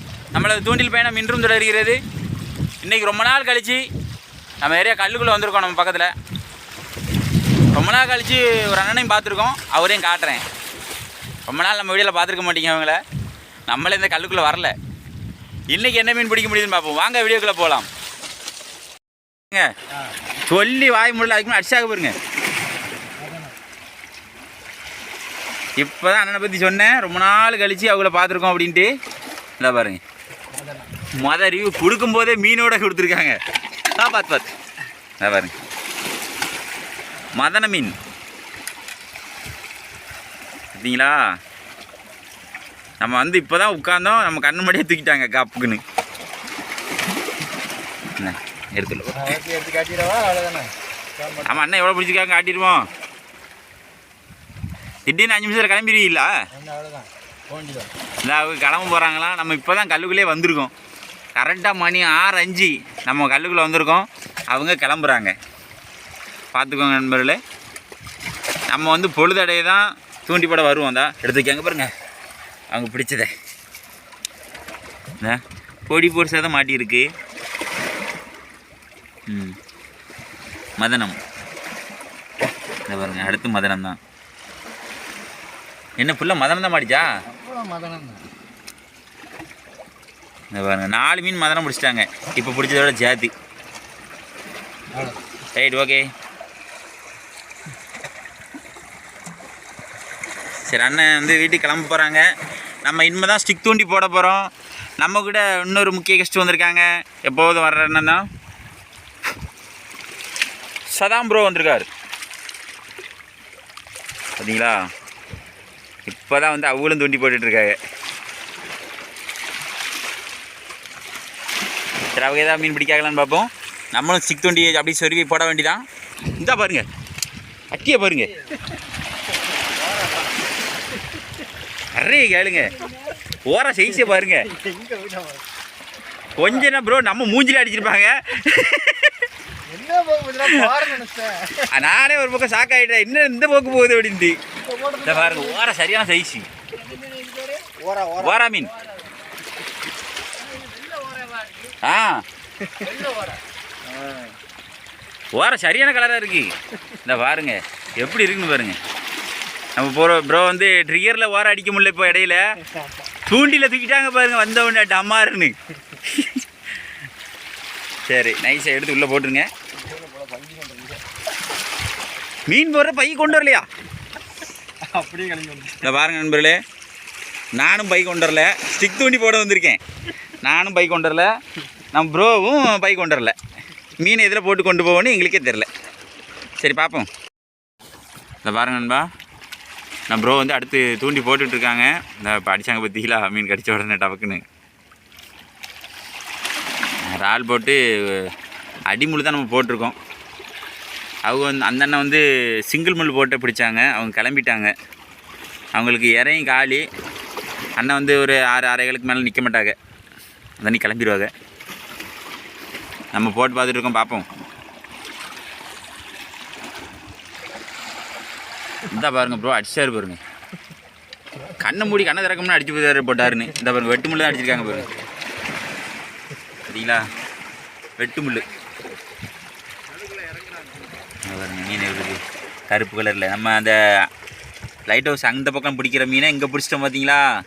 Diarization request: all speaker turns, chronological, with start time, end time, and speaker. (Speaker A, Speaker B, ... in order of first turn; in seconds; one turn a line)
Speaker A: 0.3-2.0
Speaker A: 2.8-3.8
Speaker A: 4.6-6.1
Speaker A: 7.7-10.4
Speaker A: 11.4-13.0
Speaker A: 13.7-14.7
Speaker A: 15.7-17.9
Speaker A: 20.5-22.1
Speaker B: 23.2-23.5
Speaker A: 25.8-28.9
Speaker A: 29.6-30.0
Speaker B: 30.5-31.0
Speaker A: 31.0-33.4
Speaker A: 33.9-34.5
Speaker A: 35.2-35.5
Speaker A: 37.4-37.9
Speaker A: 40.7-41.2
Speaker A: 43.0-45.8
Speaker A: 48.2-49.4
Speaker B: 49.1-51.6
Speaker A: 51.4-52.9
Speaker A: 55.0-56.3
Speaker B: 56.5-57.9
Speaker A: 58.2-60.7
Speaker A: 61.3-65.3
Speaker A: 66.5-67.4
Speaker A: 68.7-71.9
Speaker A: 72.7-73.3
Speaker A: 75.2-77.1
Speaker A: 79.3-79.6
Speaker A: 80.8-81.2
Speaker A: 82.9-84.0
Speaker A: 86.0-87.1
Speaker B: 87.3-88.2
Speaker A: 90.5-93.3
Speaker B: 94.9-95.2
Speaker A: 95.5-96.1
Speaker A: 100.7-102.2
Speaker A: 102.8-108.2
Speaker A: 110.9-111.9
Speaker A: 114.4-114.8
Speaker A: 116.0-117.8
Speaker A: 122.1-125.8
Speaker A: 126.3-126.8
Speaker A: 127.7-128.4
Speaker B: 129.6-130.3
Speaker A: 131.9-134.5
Speaker B: 132.9-133.1
Speaker B: 134.2-135.4
Speaker A: 136.3-139.3
Speaker B: 139.7-141.8
Speaker A: 140.4-140.8
Speaker A: 141.6-144.4
Speaker B: 144.6-145.6
Speaker A: 145.0-146.5
Speaker B: 146.7-148.9
Speaker A: 148.2-148.7
Speaker B: 150.4-151.8
Speaker A: 151.8-152.2
Speaker B: 152.6-153.4
Speaker B: 153.9-154.3
Speaker A: 155.3-158.8
Speaker A: 159.8-162.6
Speaker A: 163.2-166.4
Speaker A: 168.1-169.5
Speaker B: 169.8-171.0
Speaker A: 172.5-173.7
Speaker B: 174.8-175.9
Speaker A: 175.8-176.6
Speaker A: 177.6-179.8
Speaker A: 180.4-181.3
Speaker A: 181.9-183.3
Speaker A: 184.0-185.7
Speaker A: 186.6-187.1
Speaker A: 188.4-189.1
Speaker A: 190.1-194.4
Speaker A: 197.1-198.3
Speaker A: 198.9-199.9
Speaker A: 201.3-204.7
Speaker A: 205.7-206.8
Speaker A: 207.8-209.7
Speaker A: 210.6-211.3
Speaker A: 213.1-214.2
Speaker A: 218.9-220.2
Speaker A: 221.5-224.9
Speaker B: 224.7-225.0
Speaker A: 226.7-227.0
Speaker A: 228.0-228.5
Speaker B: 230.1-230.7
Speaker A: 231.2-234.1
Speaker A: 234.9-237.2